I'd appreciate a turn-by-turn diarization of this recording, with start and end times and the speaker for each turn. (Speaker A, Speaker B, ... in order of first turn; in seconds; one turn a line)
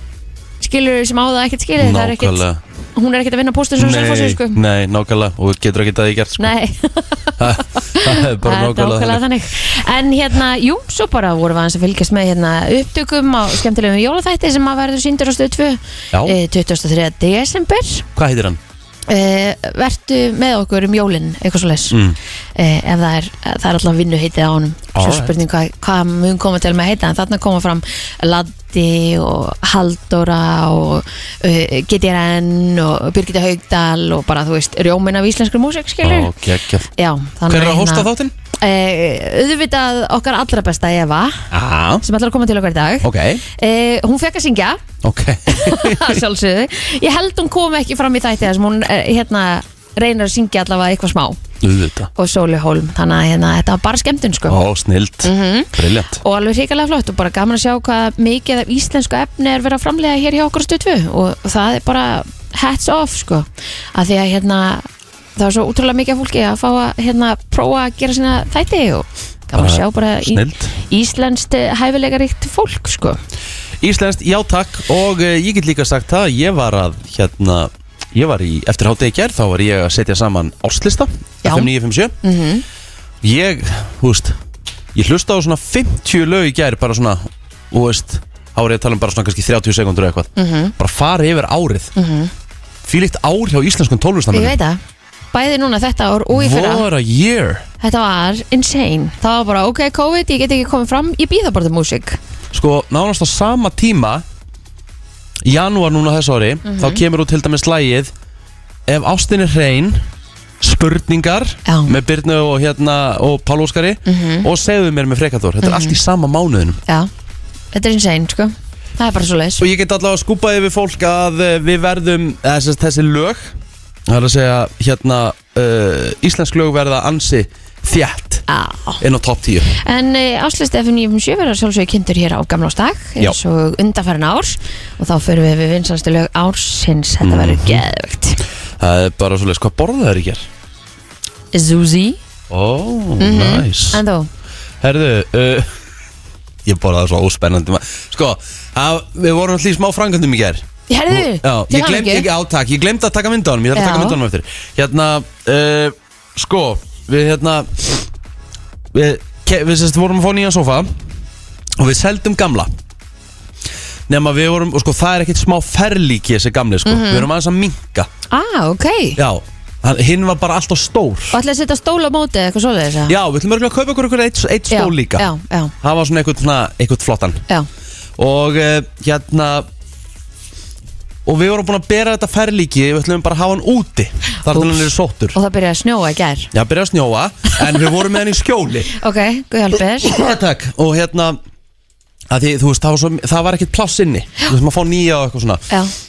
Speaker A: 0.6-2.4
Speaker B: 1.8-2.6
Speaker A: 3.0-4.6
Speaker B: 3.8-6.5
Speaker A: 6.4-18.1
Speaker B: 7.4-9.2
Speaker B: 16.1-16.4
Speaker B: 18.1-18.6
Speaker A: 19.1-22.0
Speaker B: 21.9-22.2
Speaker A: 22.6-36.3
Speaker B: 24.9-25.4
Speaker B: 36.0-36.9
Speaker A: 37.0-38.1
Speaker B: 37.5-38.3
Speaker A: 38.6-41.5
Speaker B: 41.5-42.0
Speaker A: 42.0-44.8
Speaker B: 43.0-43.4
Speaker B: 45.0-46.2
Speaker A: 45.5-51.4
Speaker B: 51.6-52.1
Speaker A: 52.2-54.6
Speaker B: 54.5-56.2
Speaker A: 55.2-64.9
Speaker A: 65.4-73.2
Speaker B: 69.5-70.7
Speaker B: 73.8-82.1
Speaker A: 81.4-81.7
Speaker A: 82.2-82.6
Speaker B: 83.2-84.3
Speaker B: 84.9-91.9
Speaker A: 90.4-90.7
Speaker A: 92.0-92.3
Speaker B: 92.8-94.6
Speaker A: 94.3-94.8
Speaker A: 95.3-96.9
Speaker B: 96.3-97.7
Speaker A: 97.8-102.2
Speaker B: 102.5-104.2
Speaker B: 105.4-108.1
Speaker A: 106.7-107.0
Speaker B: 108.9-110.0
Speaker B: 110.6-116.8
Speaker A: 111.7-112.0
Speaker A: 114.1-114.5
Speaker A: 115.6-116.0
Speaker A: 117.7-119.7
Speaker B: 119.6-123.5
Speaker B: 124.1-128.4
Speaker A: 128.5-129.0
Speaker B: 129.0-129.7
Speaker A: 129.8-138.4
Speaker B: 137.2-137.8
Speaker B: 138.8-140.5
Speaker A: 141.5-142.2
Speaker B: 142.5-144.0
Speaker A: 143.2-144.3
Speaker B: 144.8-145.7
Speaker B: 146.7-158.1
Speaker A: 150.9-152.3
Speaker A: 153.8-154.2
Speaker B: 158.9-160.9
Speaker B: 161.8-162.7
Speaker B: 164.1-168.1
Speaker A: 166.9-167.3
Speaker A: 168.3-169.2
Speaker B: 169.2-171.4
Speaker A: 171.3-173.1
Speaker B: 173.1-175.2
Speaker A: 174.7-175.7
Speaker B: 175.8-177.4
Speaker B: 178.2-179.7
Speaker B: 181.3-185.4
Speaker A: 184.5-186.5
Speaker B: 186.5-188.9
Speaker A: 189.0-190.2
Speaker B: 190.0-191.4
Speaker B: 192.3-195.7